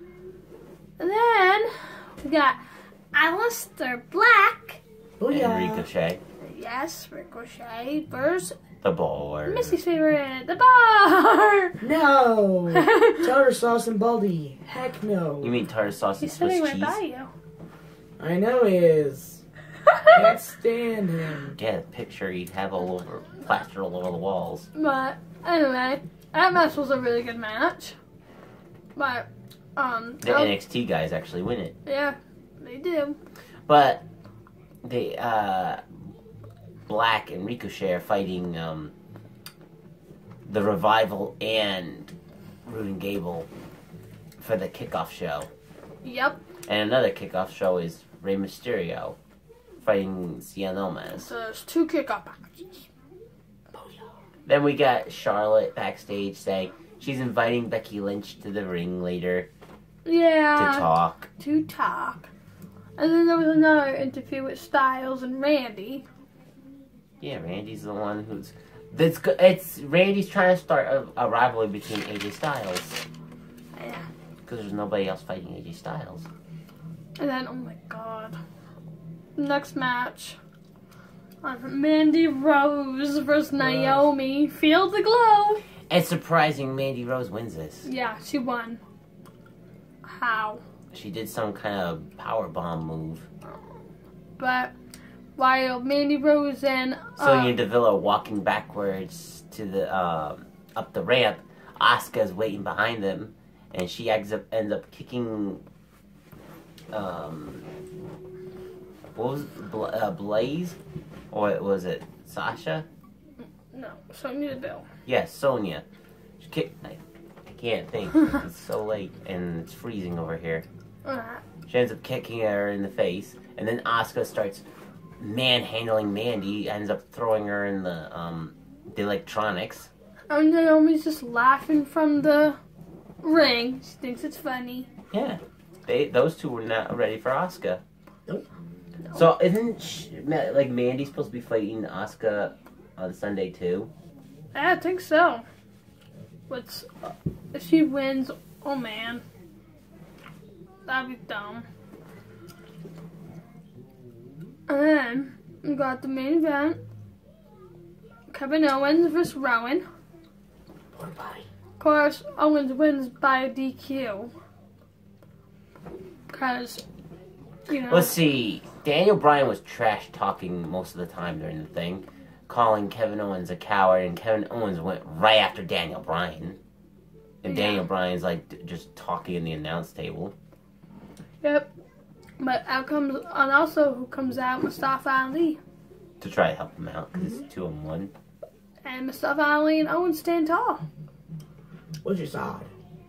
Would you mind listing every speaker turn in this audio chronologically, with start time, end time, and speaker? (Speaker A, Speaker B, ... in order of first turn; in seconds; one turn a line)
Speaker A: 1.0-2.6
Speaker A: 3.1-4.8
Speaker B: 5.2-5.9
Speaker C: 5.3-6.2
Speaker A: 6.4-8.6
Speaker C: 8.8-9.8
Speaker A: 9.4-11.8
Speaker B: 11.8-15.6
Speaker A: 12.8-13.2
Speaker C: 15.4-17.0
Speaker A: 16.2-17.3
Speaker B: 18.2-19.4
Speaker A: 19.8-20.3
Speaker B: 20.1-21.6
Speaker C: 21.5-24.7
Speaker A: 24.7-27.9
Speaker A: 28.9-30.6
Speaker C: 30.2-31.8
Speaker A: 31.8-33.2
Speaker C: 33.7-34.0
Speaker C: 34.8-35.8
Speaker C: 36.9-38.9
Speaker C: 40.5-42.1
Speaker C: 42.6-43.5
Speaker C: 44.4-45.5
Speaker A: 46.0-46.4
Speaker C: 46.6-49.2
Speaker C: 49.8-51.3
Speaker A: 51.1-52.9
Speaker C: 54.5-59.5
Speaker A: 60.0-62.3
Speaker C: 60.6-61.3
Speaker A: 63.0-66.1
Speaker C: 67.2-73.0
Speaker A: 73.8-74.1
Speaker C: 74.5-76.3
Speaker A: 77.2-78.4
Speaker A: 79.4-80.4
Speaker A: 81.4-85.6
Speaker B: 83.6-84.1
Speaker C: 85.9-87.9
Speaker A: 87.8-88.8
Speaker A: 90.0-90.6
Speaker C: 90.9-93.2
Speaker A: 94.4-94.7
Speaker A: 95.4-97.6
Speaker C: 97.2-105.6
Speaker C: 106.9-107.7
Speaker C: 109.2-110.8
Speaker C: 111.3-112.9
Speaker A: 113.7-114.9
Speaker C: 115.1-115.8
Speaker C: 116.4-120.7
Speaker A: 121.0-121.4
Speaker C: 121.7-124.6
Speaker C: 125.2-129.9
Speaker A: 130.3-132.6
Speaker A: 133.2-134.9
Speaker C: 135.1-137.8
Speaker C: 139.1-143.9
Speaker A: 144.5-145.4
Speaker A: 146.5-149.2
Speaker A: 150.9-151.7
Speaker A: 154.7-156.8
Speaker A: 158.3-159.8
Speaker B: 160.9-161.4
Speaker A: 161.8-164.3
Speaker A: 166.3-166.8
Speaker A: 167.7-168.2
Speaker C: 167.7-176.6
Speaker C: 177.4-180.3
Speaker A: 177.4-177.9
Speaker A: 181.4-181.7
Speaker A: 182.4-185.6
Speaker C: 186.2-188.1
Speaker A: 188.8-190.8
Speaker B: 192.0-192.7